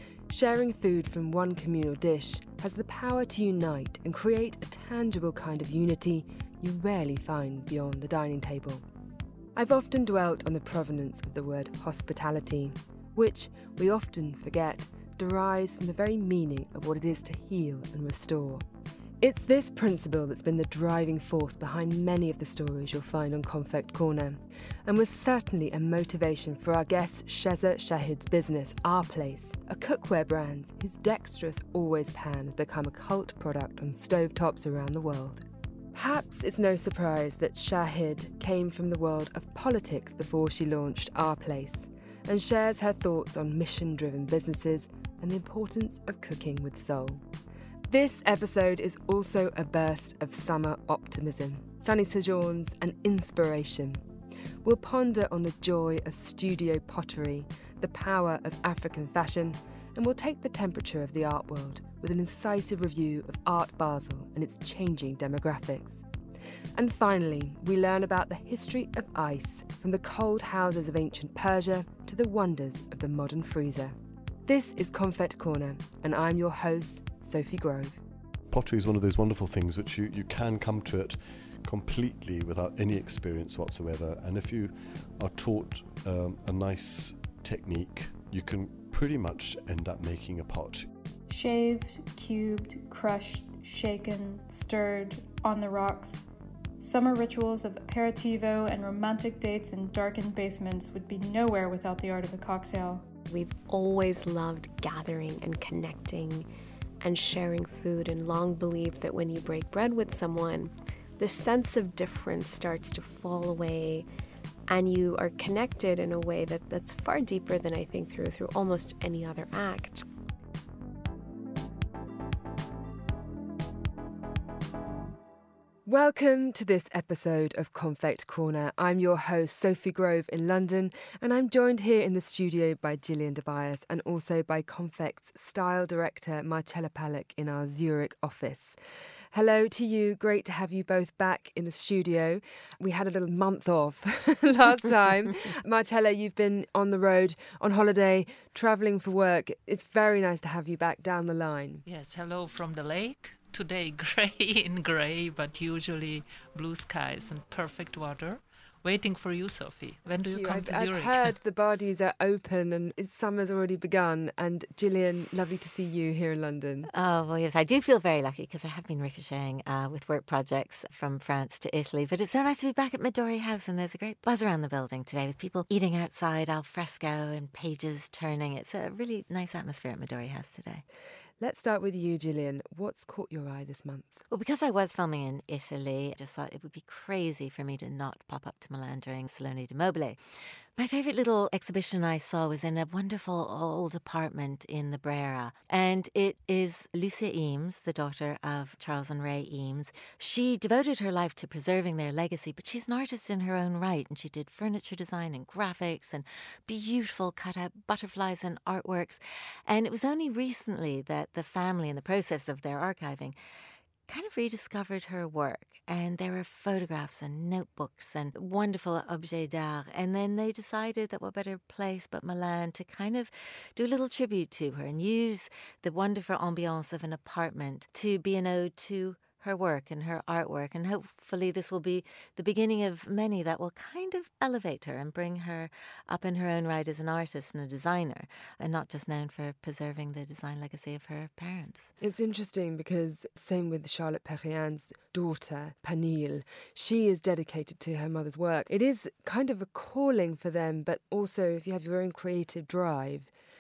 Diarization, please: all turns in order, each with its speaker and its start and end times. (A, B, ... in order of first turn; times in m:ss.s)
0:00.3-0:08.9 A
0:09.6-0:18.6 A
0:19.2-0:47.2 A
0:47.9-0:54.0 A
0:54.6-1:06.0 A
1:06.8-1:18.0 A
1:18.5-1:30.9 B
1:31.3-1:36.3 C
1:36.8-1:43.1 C
1:43.3-1:46.5 D
1:47.0-1:54.1 D
1:54.7-2:00.0 D
2:05.9-2:18.8 A
2:19.3-2:31.8 A
2:31.9-2:41.3 E
2:40.2-2:46.9 A
2:46.9-3:00.8 F
3:01.4-3:04.2 A
3:04.3-3:10.2 F
3:10.8-3:33.4 F
3:34.1-4:01.9 F
4:02.0-4:13.3 A